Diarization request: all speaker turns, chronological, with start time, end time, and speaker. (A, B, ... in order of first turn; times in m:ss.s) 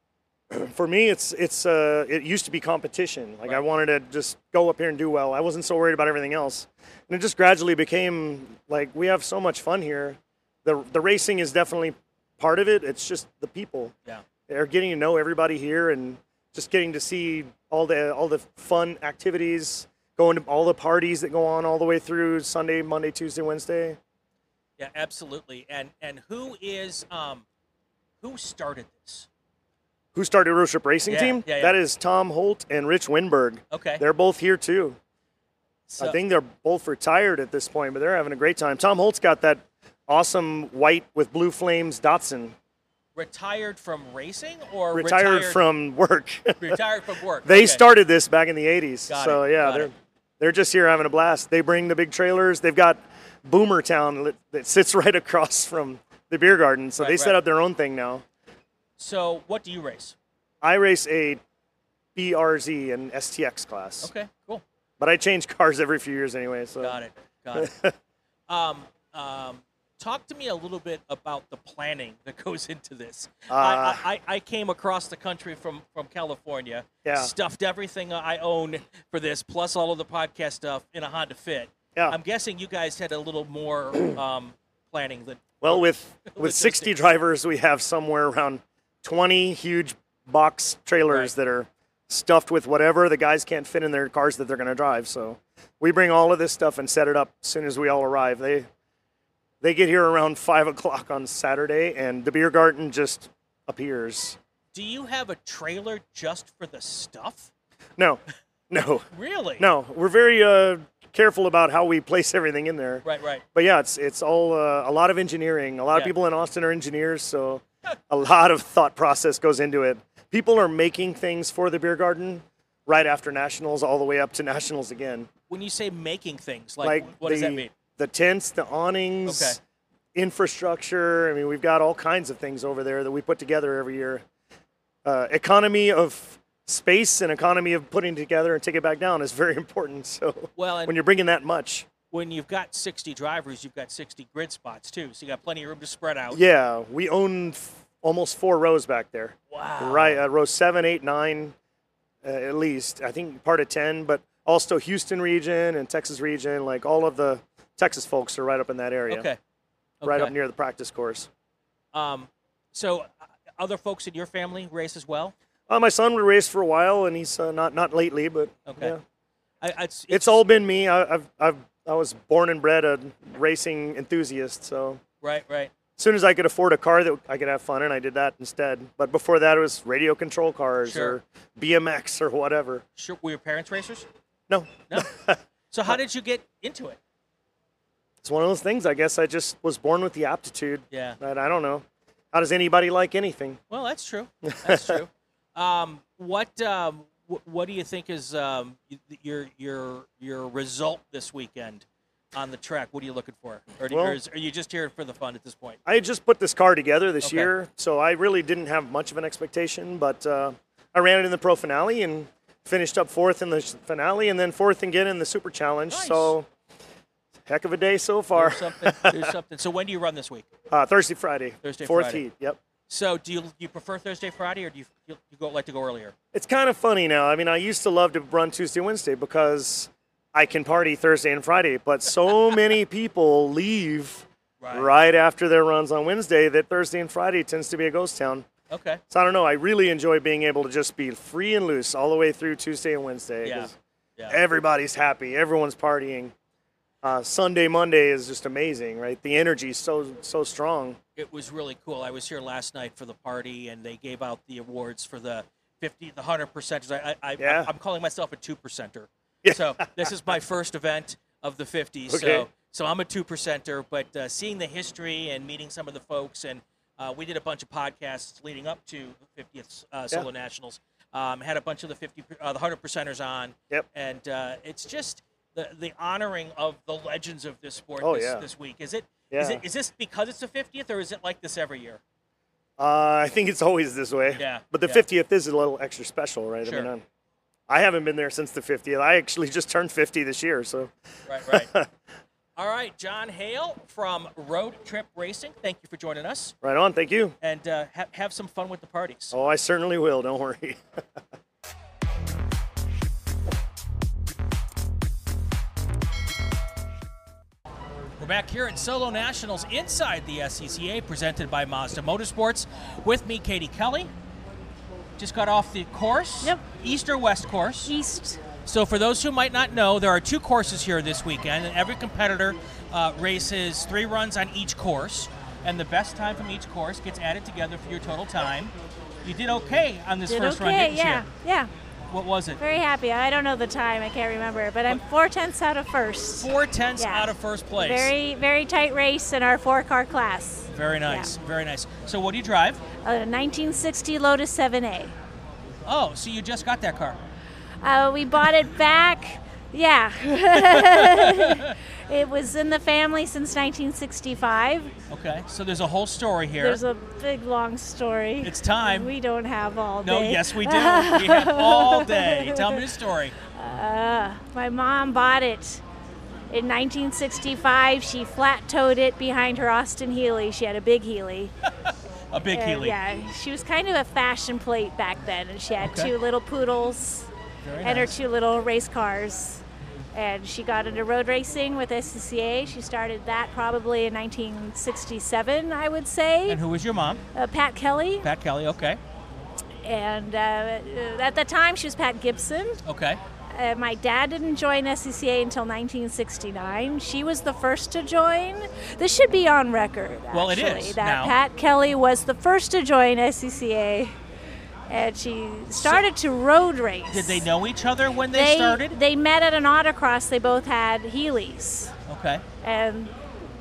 0:00.5-0:13.9 A
0:14.5-0:24.0 A
0:24.8-0:27.4 B
0:28.2-0:29.3 B
0:30.1-0:35.0 A
0:31.1-0:31.8 B
0:33.7-0:34.0 B
0:35.9-0:36.2 B
0:36.0-0:42.5 A
0:43.1-0:45.6 B
0:44.9-0:46.8 A
0:46.6-0:47.9 B
0:47.4-0:58.2 A
0:49.1-0:49.9 B
0:57.0-0:57.4 B
0:59.0-1:00.1 B
1:00.6-1:01.4 A
1:02.2-1:04.1 A
1:04.0-1:04.6 B
1:05.0-1:07.0 A
1:06.8-1:07.7 B
1:07.5-1:07.9 A
1:08.5-1:27.0 B
1:13.5-1:14.0 A
1:17.0-1:17.3 A
1:25.6-1:38.7 A
1:39.6-1:44.4 A
1:44.7-1:47.5 B
1:48.0-1:49.0 A
1:49.1-1:49.7 B
1:49.6-2:05.3 A
1:53.0-1:53.4 B
2:05.5-2:07.7 B
2:06.8-2:09.6 A
2:09.2-2:09.6 B
2:10.1-2:14.2 A
2:15.0-2:21.9 A
2:20.6-2:21.0 B
2:22.1-2:26.4 B
2:26.3-2:31.5 A
2:29.5-2:30.2 B
2:32.2-2:39.3 A
2:39.1-2:39.4 B
2:40.0-2:40.3 B
2:40.0-2:41.3 A
2:41.9-2:45.3 B
2:45.7-2:49.0 A
2:48.6-2:49.0 B
2:49.6-2:50.4 B
2:50.1-2:55.0 A
2:55.2-2:55.7 B
2:56.0-3:02.8 A
3:00.8-3:01.2 B
3:03.0-3:04.1 B
3:04.5-3:05.9 A
3:05.7-3:07.0 B
3:08.2-3:13.6 A
3:10.9-3:11.2 B
3:13.7-3:25.8 B
3:23.9-3:24.2 A
3:25.8-3:36.5 A
3:27.2-3:27.5 B
3:35.9-3:36.3 B
3:37.5-3:39.3 A
3:38.3-3:40.5 B
3:40.7-3:42.6 A
3:41.6-3:42.2 B
3:42.9-3:46.1 B
3:46.3-3:58.5 A
3:54.6-3:54.9 B
3:58.7-3:59.0 B
3:59.1-4:03.7 A
4:03.4-4:04.4 B
4:04.3-4:06.3 A
4:07.0-4:11.0 A
4:11.2-4:42.0 B
4:17.4-4:17.7 A
4:19.4-4:20.1 A
4:22.1-4:22.5 A
4:38.0-4:38.4 A
4:39.3-4:39.6 A
4:42.8-4:47.0 A
4:44.3-4:45.0 B
4:46.6-4:46.9 B
4:47.7-4:50.9 A
4:51.3-4:51.7 B
4:51.5-4:51.9 A
4:52.6-4:56.5 B
4:56.6-4:57.4 A
4:57.4-4:59.3 B
4:59.3-5:00.8 A
5:08.2-5:14.1 B
5:15.2-5:17.9 B
5:17.8-5:18.4 C
5:18.6-5:28.7 B
5:29.2-5:31.3 B
5:30.3-5:31.7 C
5:32.1-5:32.6 B
5:32.6-5:41.3 C
5:36.4-5:38.1 B
5:40.7-5:42.8 B
5:43.0-5:45.1 C
5:45.8-5:47.2 B
5:47.8-5:54.9 C
5:50.5-5:51.8 B
5:55.1-5:56.8 B
5:56.6-6:02.8 C
5:58.4-5:59.1 B
6:00.0-6:03.4 B
6:03.5-6:05.8 C
6:06.5-6:11.5 C
6:11.8-6:13.0 B
6:12.5-6:17.3 C
6:15.8-6:16.1 B
6:17.6-6:18.1 B
6:17.8-6:19.6 C
6:20.1-6:26.6 C
6:26.5-6:27.2 B
6:27.3-6:28.3 C
6:28.2-6:29.0 B
6:29.8-6:32.8 C
6:32.8-6:33.2 B
6:33.5-6:44.1 C
6:40.3-6:41.3 B
6:44.9-6:47.4 C
6:45.7-6:46.0 B
6:47.1-6:49.0 B
6:48.3-6:51.9 C
6:52.1-6:52.4 B
6:52.6-6:53.1 C